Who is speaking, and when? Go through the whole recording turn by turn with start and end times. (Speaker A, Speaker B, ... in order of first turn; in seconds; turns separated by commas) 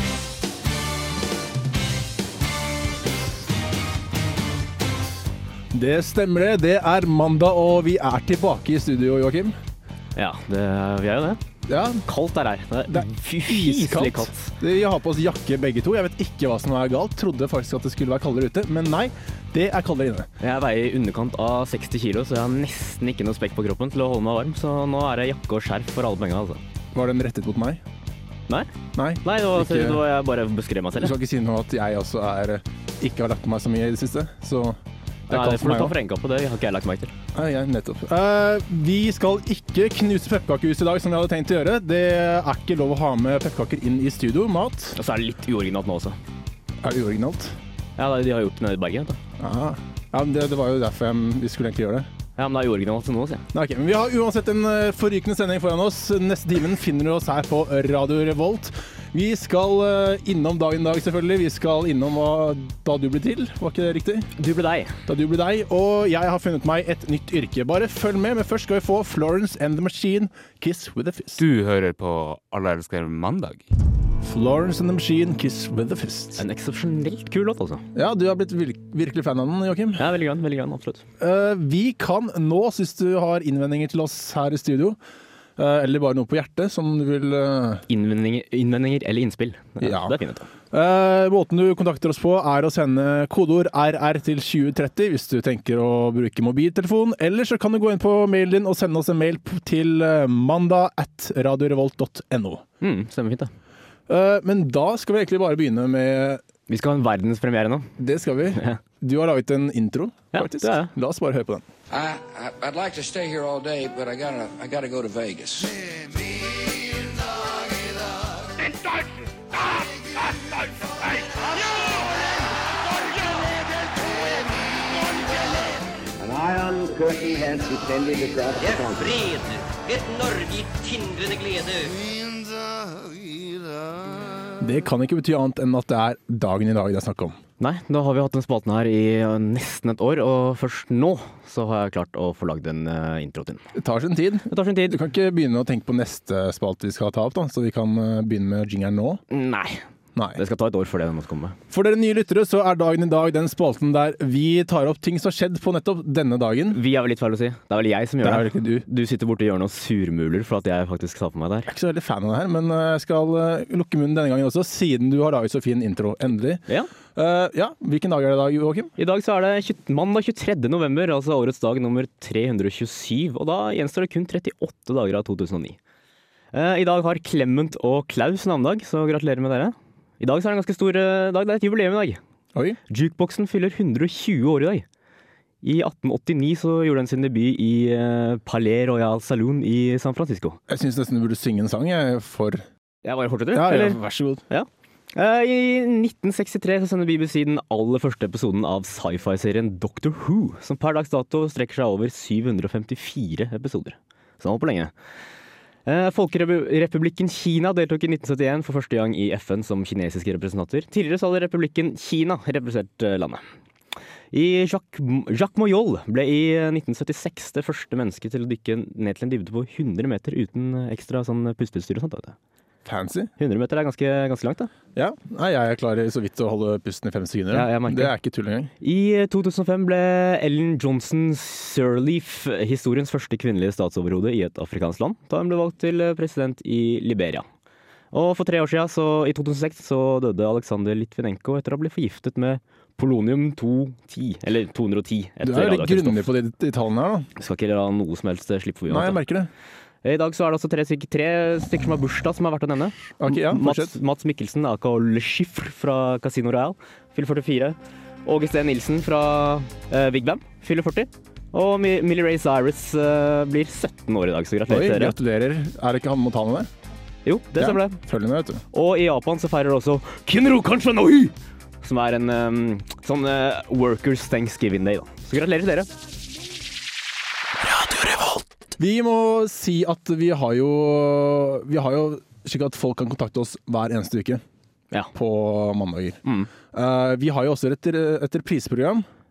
Speaker A: 5.7-9.6, Speaker B: 10.2-11.4, Speaker A: 11.7-12.1, Speaker B: 12.1-14.5, Speaker A: 12.9-20.3, Speaker B: 20.4-26.6, Speaker A: 26.9-27.8, Speaker A: 28.9-30.0, Speaker B: 29.2-31.1, Speaker A: 31.0-36.0, Speaker B: 35.3-37.1, Speaker A: 37.3-45.0, Speaker B: 45.0-46.2, Speaker A: 46.8-47.6, Speaker B: 48.0-49.2, Speaker A: 49.4-52.1, Speaker B: 52.4-53.4, Speaker A: 53.5-64.3, Speaker B: 64.4-65.0, Speaker A: 65.1-71.4, Speaker C: 71.4-73.7, Speaker A: 74.2-76.4, Speaker B: 76.4-77.8, Speaker A: 78.0-80.0, Speaker B: 80.0-81.0, Speaker A: 81.2-85.0, Speaker A: 85.6-87.8, Speaker B: 87.9-90.5, Speaker A: 89.8-90.2, Speaker A: 90.7-102.6, Speaker B: 102.8-103.5, Speaker A: 104.1-106.4, Speaker B: 106.7-107.9, Speaker A: 108.0-111.7, Speaker B: 108.5-108.8, Speaker B: 110.3-110.9, Speaker D: 111.9-115.9, Speaker E: 121.6-122.1, Speaker E: 123.0-123.4, Speaker E: 124.0-125.6, Speaker F: 126.2-129.1, Speaker E: 128.6-132.0, Speaker A: 134.6-137.4, Speaker B: 137.6-143.6, Speaker A: 143.7-149.2, Speaker B: 144.5-145.0, Speaker B: 149.3-149.8, Speaker A: 150.2-150.4, Speaker B: 150.4-151.6, Speaker A: 151.7-156.8, Speaker B: 156.7-161.7, Speaker A: 158.2-158.9, Speaker A: 161.7-168.9, Speaker B: 169.0-175.8, Speaker B: 176.5-182.2, Speaker B: 182.9-184.8, Speaker B: 185.6-190.6, Speaker A: 190.7-192.7, Speaker B: 193.0-204.9, Speaker A: 193.5-194.4, Speaker B: 205.9-213.4, Speaker B: 214.3-222.3, Speaker A: 222.8-223.3, Speaker B: 223.4-224.7, Speaker A: 224.9-228.7, Speaker B: 227.5-228.2, Speaker B: 228.8-237.5, Speaker B: 238.1-246.3, Speaker A: 245.4-247.3, Speaker B: 247.4-249.2, Speaker A: 248.9-249.5, Speaker B: 250.0-265.2, Speaker A: 253.2-253.9, Speaker A: 264.7-266.7, Speaker B: 267.3-268.0, Speaker A: 267.6-268.6, Speaker B: 268.7-275.9, Speaker B: 277.7-278.4, Speaker A: 278.8-284.4, Speaker A: 285.1-286.2, Speaker B: 286.2-286.5, Speaker A: 286.7-289.1